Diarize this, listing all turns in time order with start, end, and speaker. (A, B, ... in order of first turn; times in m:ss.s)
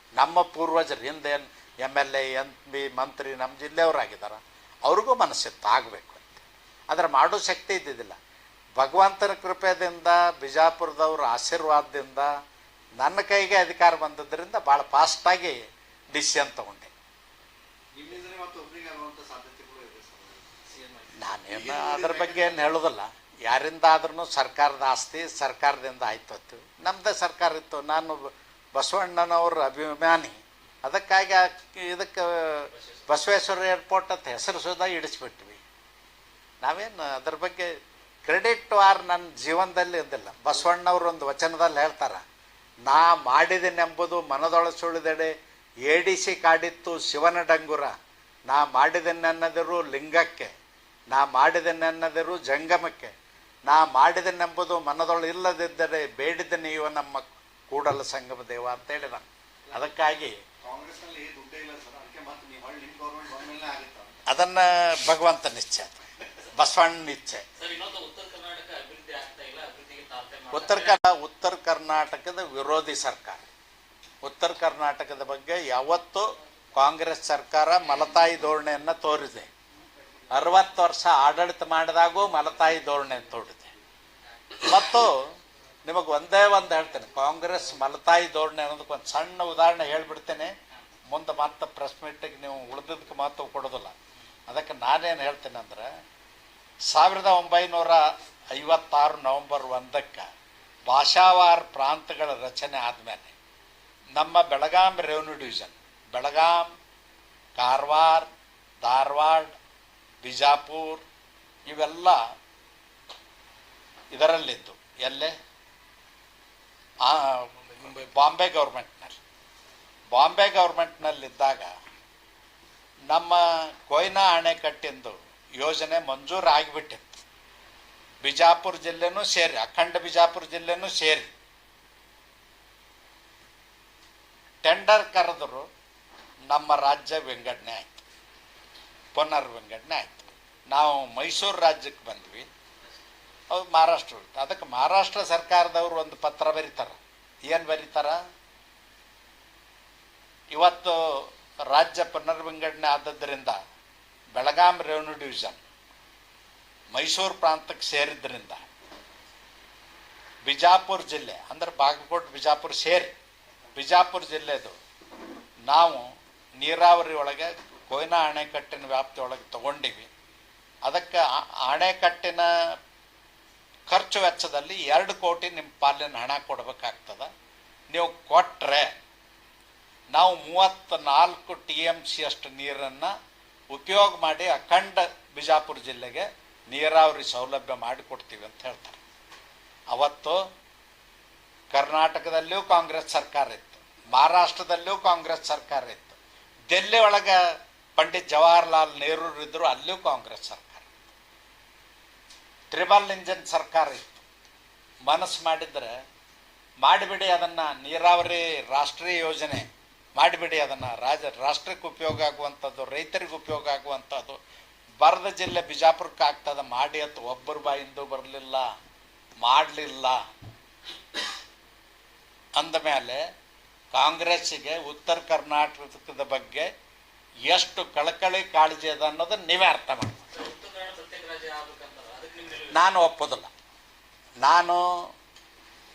0:00.2-0:08.2 A
0:08.8-0:12.3 A
0:13.0-0:15.6 A
0:16.1-0:16.9 A
0:17.9-0:20.5 B
0:20.7-0:21.1 C
0:21.2-0:35.6 A
0:21.5-0:22.7 B
0:32.7-0:33.1 C
0:36.6-0:42.2 A
0:42.9-0:48.0 A
0:48.5-0:50.5 A
0:51.1-0:53.1 A
0:53.7-1:00.4 A
0:59.7-1:00.0 B
1:00.6-1:04.2 B
1:04.3-1:06.0 A
1:06.6-1:07.4 A
1:07.6-1:11.0 C
1:10.5-1:13.5 A
1:14.2-1:19.5 A
1:19.8-1:20.5 B
1:20.3-1:23.7 A
1:24.6-1:30.5 A
1:31.1-1:34.0 A
1:34.5-1:35.9 A
1:36.9-1:40.3 A
1:40.9-1:43.3 A
1:44.2-1:46.7 A
1:47.6-1:48.3 A
1:48.8-1:49.6 A
1:50.2-1:51.0 A
1:51.7-1:52.2 A
1:54.1-1:55.4 A
1:57.0-1:59.2 A
2:00.1-2:01.7 A
2:03.1-2:07.2 A
2:08.2-2:11.3 A
2:14.6-2:15.7 A
2:16.5-2:18.0 A
2:19.1-2:22.5 A
2:23.5-2:28.2 A
2:30.5-2:33.6 A
2:34.3-2:35.6 A
2:36.9-2:38.7 A
2:40.4-2:43.2 A
2:43.8-2:44.8 A
2:45.7-2:50.1 A
2:50.8-2:52.5 A
2:53.9-2:57.3 A
2:57.9-2:58.9 A
3:00.1-3:03.1 A
3:03.7-3:09.0 A
3:09.9-3:10.5 A
3:11.7-3:16.2 A
3:16.7-3:20.9 A
3:22.7-3:24.2 A
3:25.1-3:26.0 A
3:26.8-3:34.4 A
3:35.0-3:38.7 A
3:39.4-3:40.2 A
3:42.6-3:43.2 A
3:43.9-3:46.7 A
3:47.5-3:50.3 A
3:50.3-3:52.8 C
3:52.7-3:53.5 A
3:54.4-3:55.1 A